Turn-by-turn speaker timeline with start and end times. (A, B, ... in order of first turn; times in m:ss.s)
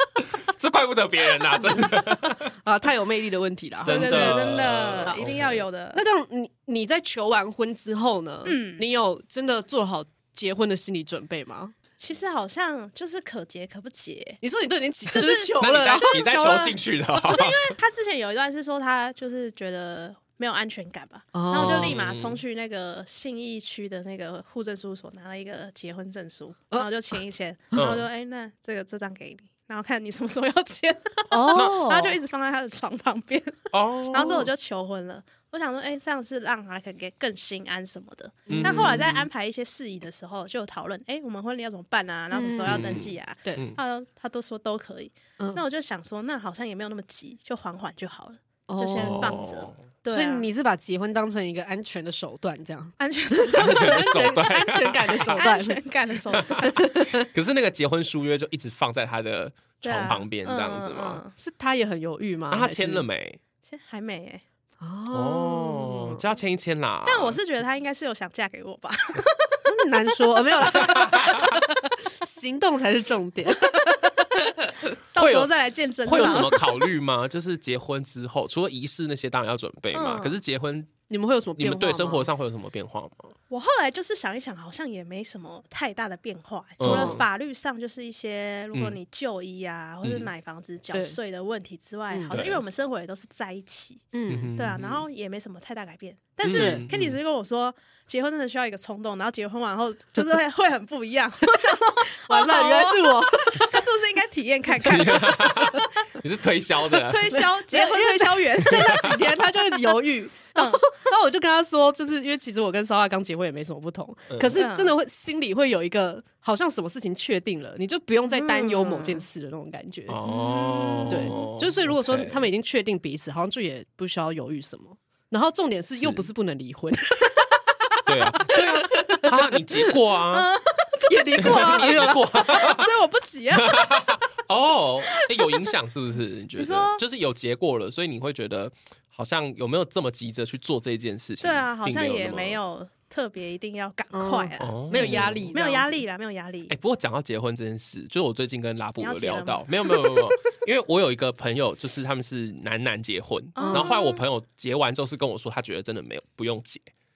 0:00.4-0:02.5 A
0:02.6-0:04.5 B
0:03.8-0:05.6 A
0:03.8-0:06.0 C
0:05.9-0:11.7 B
0:08.4-0:08.8 C
0:12.0-0:14.4 C
0:14.4-0:16.8 B
0:15.1-0:16.6 C
0:15.5-0:17.8 A
0:17.1-0:50.4 C
0:21.3-0:22.0 B
0:21.5-0:22.4 A
0:27.7-0:28.0 A
0:31.3-0:32.2 B
0:31.5-0:31.9 A
0:33.7-0:34.5 A
0:38.5-0:39.2 B
0:38.5-0:39.2 A
0:42.3-0:43.6 B
0:42.6-0:43.8 A
0:48.7-0:49.4 B
0:49.0-0:49.8 A
0:50.1-0:55.8 B
0:53.0-0:54.2 C
0:53.6-0:55.4 A
0:55.3-0:56.9 C
0:56.4-1:01.2 A
0:56.6-0:57.2 B
0:59.8-1:01.3 C
1:01.4-1:03.0 B
1:02.5-1:03.4 A
1:03.6-1:04.4 C
1:04.8-1:06.0 B
1:05.1-1:07.4 A
1:07.0-1:09.7 C
1:09.7-1:14.1 B
1:10.8-1:11.6 A
1:15.1-1:16.6 C
1:15.2-1:15.5 A
1:16.0-1:21.0 A
1:19.9-1:20.4 C
1:21.1-1:22.3 B
1:21.6-1:23.3 A
1:23.5-1:46.1 C
1:26.8-1:27.2 A
1:26.8-1:27.2 B
1:30.0-1:30.3 A
1:32.1-1:32.4 B
1:32.3-1:32.6 A
1:34.1-1:34.5 B
1:34.3-1:35.0 A
1:36.4-1:37.2 A
1:36.5-1:36.8 B
1:42.3-1:43.8 B
1:44.8-1:47.4 A
1:46.9-1:49.0 C
1:47.3-2:00.2 B
1:48.6-1:49.3 A
1:50.5-1:50.8 C
1:54.3-1:54.7 A
1:54.6-1:54.9 C
1:58.3-1:59.2 C
2:00.1-2:02.4 A
2:00.2-2:01.5 C
2:01.1-2:07.6 B
2:06.0-2:06.2 A
2:08.0-2:10.5 A
2:08.5-2:09.3 B
2:10.3-2:11.5 C
2:11.1-2:12.3 B
2:11.4-2:12.9 A
2:12.5-2:14.2 C
2:13.5-2:22.6 A
2:15.4-2:15.6 C
2:16.6-2:17.0 C
2:21.4-2:26.7 C
2:24.1-2:26.0 B
2:24.6-2:25.6 A
2:26.7-2:36.9 A
2:29.0-2:30.4 C
2:33.6-2:34.2 C
2:33.6-2:33.9 B